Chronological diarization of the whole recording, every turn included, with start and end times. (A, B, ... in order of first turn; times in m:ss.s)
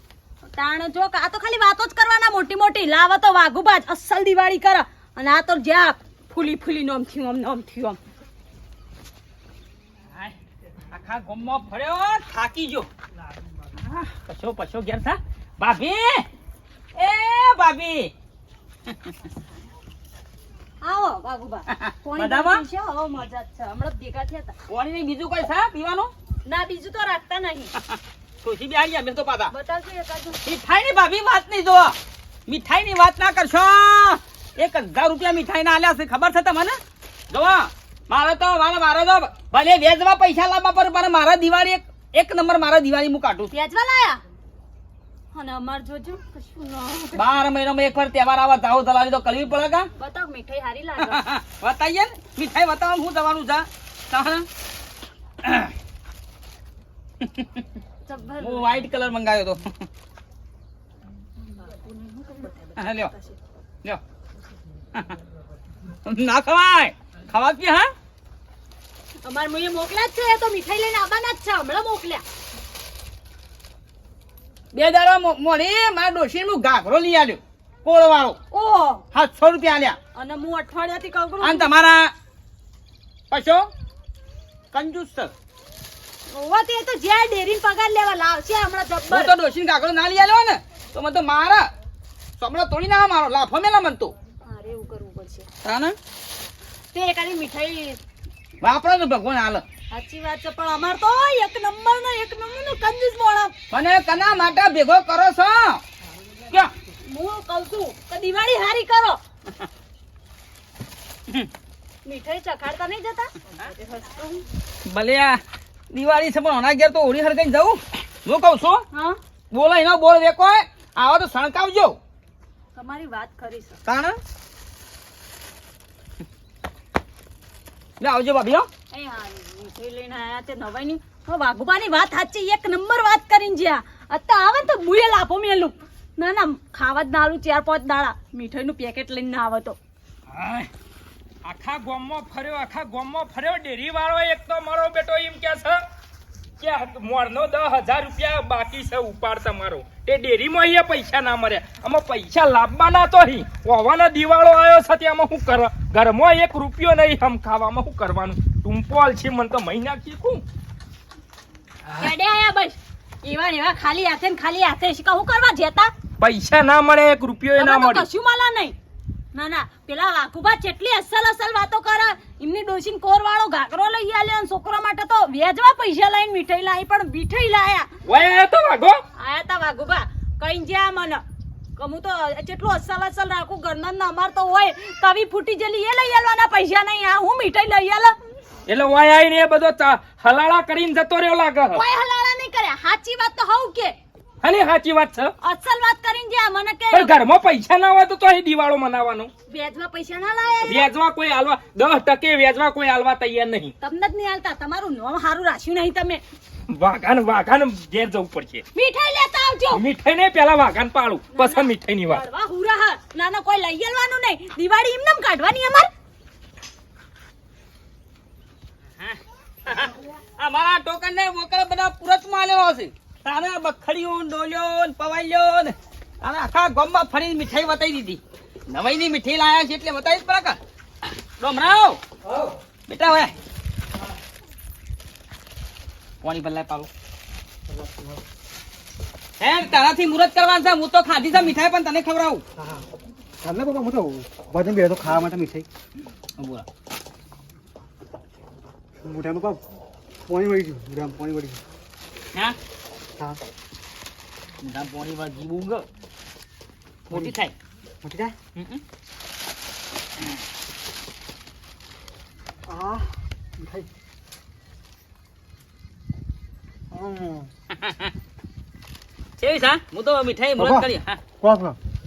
0:00.4-0:08.0 A
0:10.9-0:12.9 B
0:13.8-0:16.3 B
0:17.0-0:18.1 B
0:20.8-0:24.5 A
0:21.7-0:22.6 B
0:24.7-0:26.1 B
0:26.4-0:27.7 A
0:27.8-0:29.5 B
0:29.5-0:30.4 A
0:30.4-0:32.0 B
0:32.5-0:36.8 B
0:37.3-0:43.5 B
0:43.5-0:44.2 A
0:45.3-0:47.2 A
0:47.1-0:49.9 B
0:50.0-0:51.2 A
0:51.0-0:54.5 B
0:55.4-0:55.7 B
0:57.2-0:57.6 B
0:58.0-0:58.7 A
0:58.4-0:59.8 B
1:01.5-1:03.4 A
1:02.8-1:03.1 B
1:06.0-1:07.9 B
1:09.2-1:12.2 A
1:14.7-1:18.4 B
1:18.5-1:19.0 A
1:19.1-1:20.0 B
1:20.1-1:21.7 A
1:21.4-1:22.1 B
1:23.3-1:23.7 B
1:24.7-1:25.3 B
1:26.3-1:29.3 A
1:29.1-1:31.7 B
1:32.4-1:34.1 B
1:34.4-1:35.5 A
1:35.6-1:36.0 B
1:36.9-1:38.0 A
1:38.6-1:39.6 B
1:39.9-1:43.5 A
1:43.7-1:45.8 B
1:47.0-1:49.2 A
1:52.0-1:54.4 A
1:54.8-1:55.4 B
1:55.9-1:58.8 B
1:58.9-1:59.2 A
1:59.5-2:02.0 B
2:02.7-2:03.8 A
2:03.8-2:04.2 B
2:08.0-2:08.7 B
2:08.9-2:19.8 A
2:20.3-2:20.7 C
2:21.4-2:25.8 C
2:26.6-2:40.4 C
2:41.9-2:45.9 A
2:46.2-2:48.0 C
2:47.6-2:48.7 A
2:49.3-2:57.9 A
2:58.0-2:59.0 C
2:59.2-3:01.2 A
3:01.8-3:08.1 A
3:08.7-3:11.8 C
3:11.7-3:13.9 A
3:14.4-3:15.3 C
3:15.4-3:17.1 A
3:16.9-3:19.3 C
3:19.5-3:20.9 A
3:20.6-3:23.7 C
3:23.8-3:26.2 A
3:26.7-3:28.6 C
3:28.7-3:29.8 A
3:29.7-3:32.2 C
3:31.3-3:35.9 A
3:39.0-3:52.0 B
3:52.2-3:52.5 D
3:52.9-3:53.3 B
3:56.2-3:56.9 B
3:57.7-3:58.2 D
3:59.4-4:02.4 B
4:02.6-4:02.8 D
4:03.4-4:05.7 D
4:06.4-4:06.6 B
4:09.0-4:09.6 D
4:10.3-4:11.6 D
4:14.6-4:15.8 B
4:17.1-4:17.5 B
4:17.1-4:17.4 D
4:18.0-4:18.4 D
4:18.6-4:18.8 B
4:22.7-4:23.9 D
4:26.9-4:27.5 D
4:27.7-4:28.1 B
4:29.4-4:31.2 B
4:30.6-4:31.8 D